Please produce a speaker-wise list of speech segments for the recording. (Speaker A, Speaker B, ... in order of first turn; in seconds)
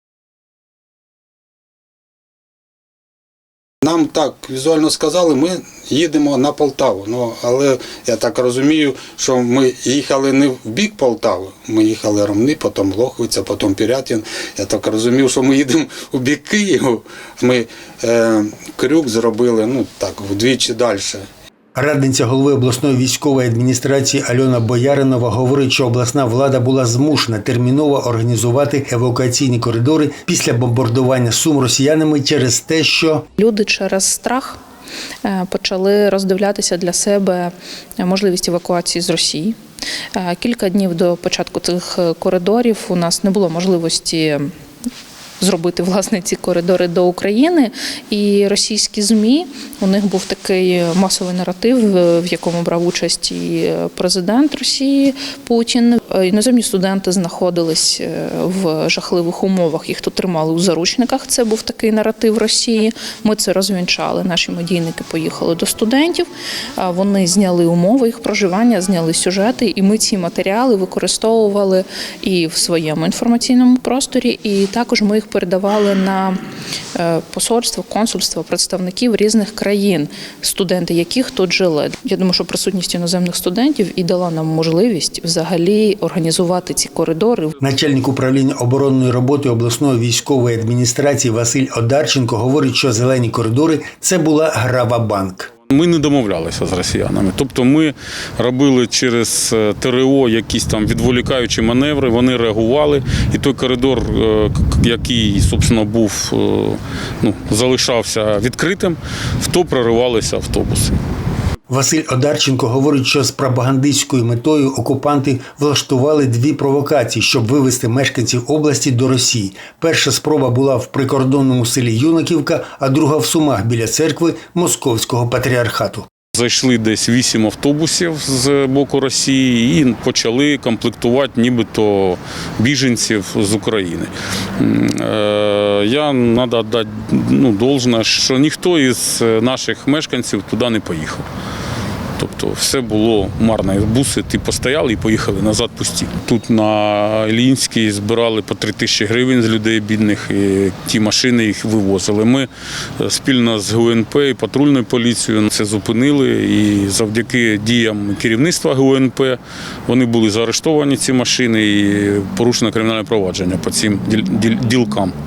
Speaker A: 3.8-21.2
Speaker B: 21.7-33.3, 87.6-95.5, 111.7-126.1
Speaker C: 33.4-34.6, 35.2-39.5, 40.2-44.4, 45.4-66.3, 66.8-76.4, 77.0-87.5
Speaker D: 95.7-110.9, 126.3-141.2, 142.2-165.1